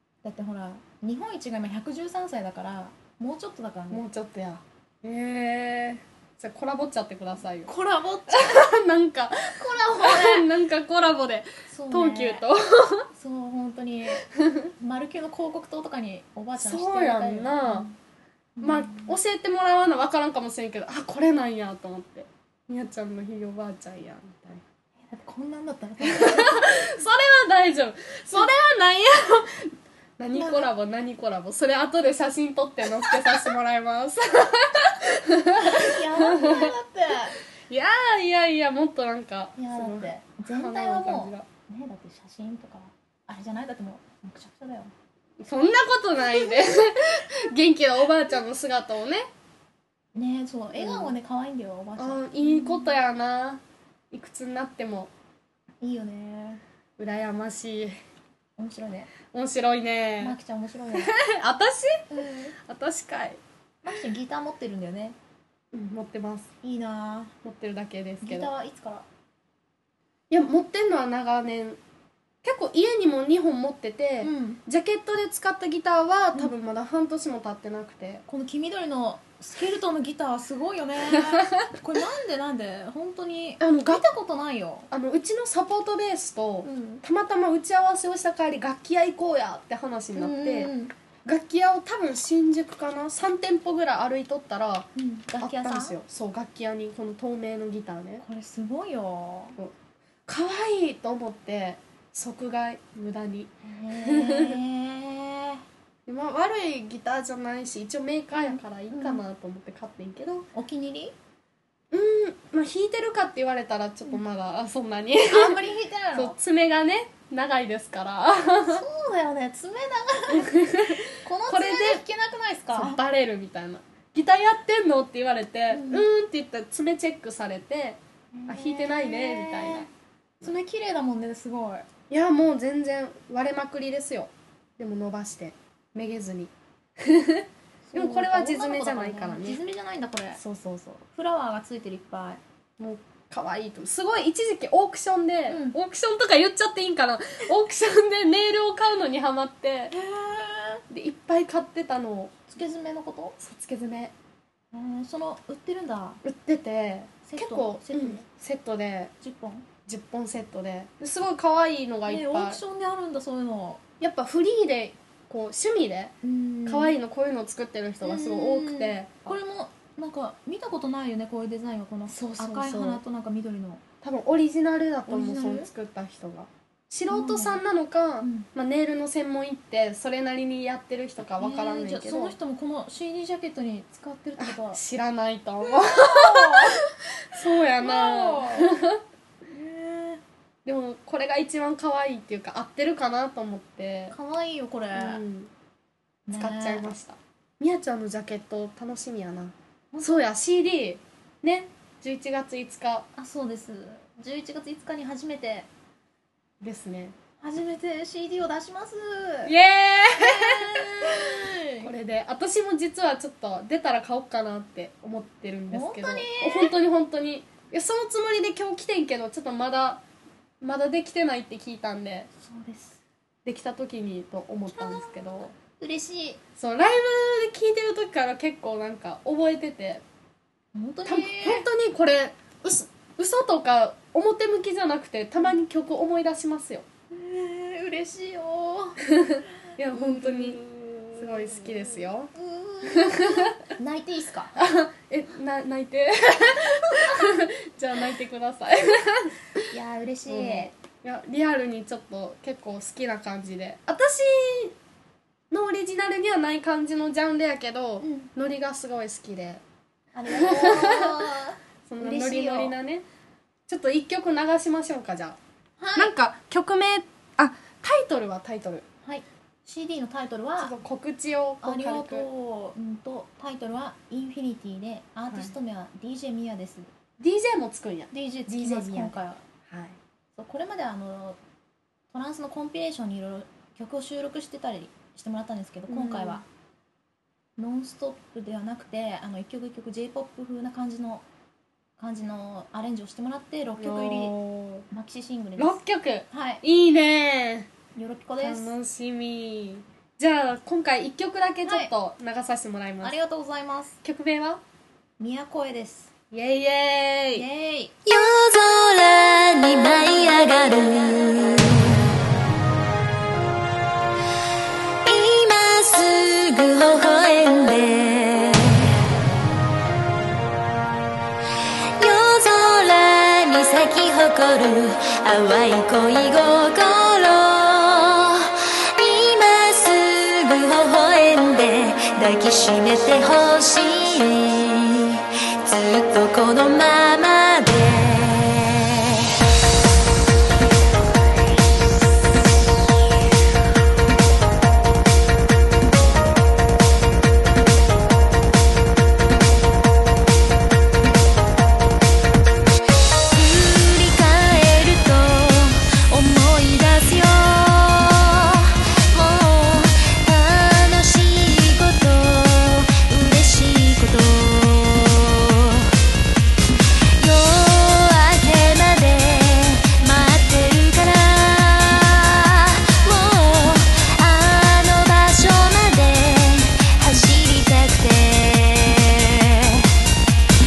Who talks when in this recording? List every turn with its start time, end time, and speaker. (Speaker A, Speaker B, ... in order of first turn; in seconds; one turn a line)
Speaker A: 0.2-4.0
Speaker B: 3.9-7.7
Speaker A: 7.7-8.7
Speaker B: 8.3-13.1
Speaker A: 9.4-10.5
Speaker A: 11.7-12.4
Speaker A: 13.1-17.9
Speaker B: 14.4-14.7
Speaker B: 16.6-17.9
Speaker A: 18.6-19.1
Speaker B: 18.6-24.6
Speaker A: 25.1-26.9
Speaker B: 26.0-36.7
Speaker A: 30.3-30.7
Speaker A: 35.6-37.4
Speaker B: 37.7-41.5
Speaker A: 39.6-44.9
Speaker B: 45.4-49.2
Speaker A: 50.1-53.0
Speaker B: 50.7-51.1
Speaker B: 52.0-55.1
Speaker A: 55.8-56.6
Speaker B: 57.0-58.0
Speaker A: 58.6-59.1
Speaker B: 59.3-60.4
Speaker A: 60.2-61.1
Speaker B: 60.9-62.0
Speaker A: 62.1-62.5
Speaker B: 62.6-63.4
Speaker A: 63.8-65.2
Speaker B: 65.7-66.5
Speaker A: 66.6-67.3
Speaker B: 67.4-68.5
Speaker A: 68.2-69.0
Speaker B: 70.3-71.8
Speaker B: 72.4-78.2
Speaker A: 74.2-74.6
Speaker A: 78.3-84.9
Speaker B: 81.2-81.6
Speaker B: 83.6-84.0
Speaker B: 84.9-90.7
Speaker A: 86.6-87.0
Speaker A: 90.1-90.9
Speaker B: 91.2-94.9
Speaker A: 95.0-96.0
Speaker B: 95.4-98.2
Speaker A: 98.2-99.6
Speaker B: 100.3-104.6
Speaker A: 103.6-105.6
Speaker B: 106.1-110.5
Speaker A: 108.5-109.2
Speaker A: 110.5-111.1
Speaker B: 111.9-115.6
Speaker A: 115.3-116.4
Speaker B: 116.1-118.8
Speaker A: 118.6-123.0
Speaker B: 120.3-122.0
Speaker B: 122.7-129.9
Speaker A: 125.7-126.1
Speaker A: 128.3-129.9
Speaker A: 130.4-131.9
Speaker B: 132.1-139.6
Speaker A: 137.9-140.4
Speaker B: 140.3-141.0
Speaker A: 141.1-142.4
Speaker B: 142.8-149.9
Speaker A: 145.5-145.8
Speaker A: 149.9-150.8
Speaker B: 150.9-152.3
Speaker A: 152.5-153.4
Speaker B: 153.4-154.1
Speaker A: 154.7-156.2
Speaker B: 156.2-159.1
Speaker A: 157.2-158.2
Speaker A: 159.2-159.7
Speaker B: 159.8-162.6
Speaker A: 162.1-163.8
Speaker B: 164.0-166.1
Speaker A: 166.2-167.0
Speaker B: 166.7-169.1
Speaker A: 168.0-173.8
Speaker B: 172.1-173.0
Speaker B: 174.0-182.3
Speaker A: 175.1-175.7
Speaker A: 177.1-177.6
Speaker A: 178.2-178.5
Speaker A: 181.4-184.8
Speaker B: 184.4-189.0
Speaker A: 185.7-186.8
Speaker A: 187.8-188.8
Speaker A: 189.5-190.2
Speaker B: 190.6-194.2
Speaker A: 194.1-195.2
Speaker B: 194.9-195.5
Speaker A: 196.3-196.9
Speaker B: 196.3-203.1
Speaker A: 199.9-200.2
Speaker A: 203.2-205.7
Speaker B: 206.6-207.1
Speaker A: 207.4-209.5
Speaker B: 209.4-220.0
Speaker A: 210.1-211.9
Speaker A: 215.7-216.7
Speaker B: 220.6-222.3
Speaker A: 222.3-223.0
Speaker B: 223.4-225.5
Speaker A: 224.7-226.4
Speaker B: 226.6-230.0
Speaker A: 230.7-231.7
Speaker B: 231.1-236.8
Speaker A: 237.1-239.0
Speaker B: 239.2-240.6
Speaker A: 239.8-244.6
Speaker B: 241.1-242.3
Speaker B: 242.8-243.6
Speaker B: 244.6-249.6
Speaker A: 249.7-250.7
Speaker B: 250.2-254.7
Speaker B: 255.5-259.6
Speaker A: 258.0-258.3
Speaker A: 260.1-262.8
Speaker B: 260.3-261.3
Speaker B: 261.9-263.1
Speaker B: 263.7-265.4
Speaker A: 265.8-266.1
Speaker B: 265.9-268.8
Speaker A: 269.0-270.7
Speaker B: 270.6-272.3
Speaker A: 271.6-276.9
Speaker B: 275.3-275.5
Speaker B: 277.2-280.0
Speaker A: 278.1-279.4
Speaker A: 280.4-281.4
Speaker A: 282.1-286.4
Speaker B: 285.9-286.4
Speaker A: 287.6-291.2
Speaker A: 292.0-294.3
Speaker B: 293.8-294.9
Speaker A: 294.9-296.6
Speaker B: 295.6-297.7
Speaker A: 297.9-298.7
Speaker B: 298.4-303.1
Speaker A: 301.6-301.9
Speaker A: 303.0-304.0
Speaker B: 304.0-304.6
Speaker A: 305.2-306.1
Speaker B: 306.3-307.4
Speaker A: 307.3-307.9
Speaker C: 308.0-312.1
Speaker C: 315.0-318.9
Speaker C: 322.0-339.3
Speaker C: 353.3-365.9
Speaker C: 367.2-379.9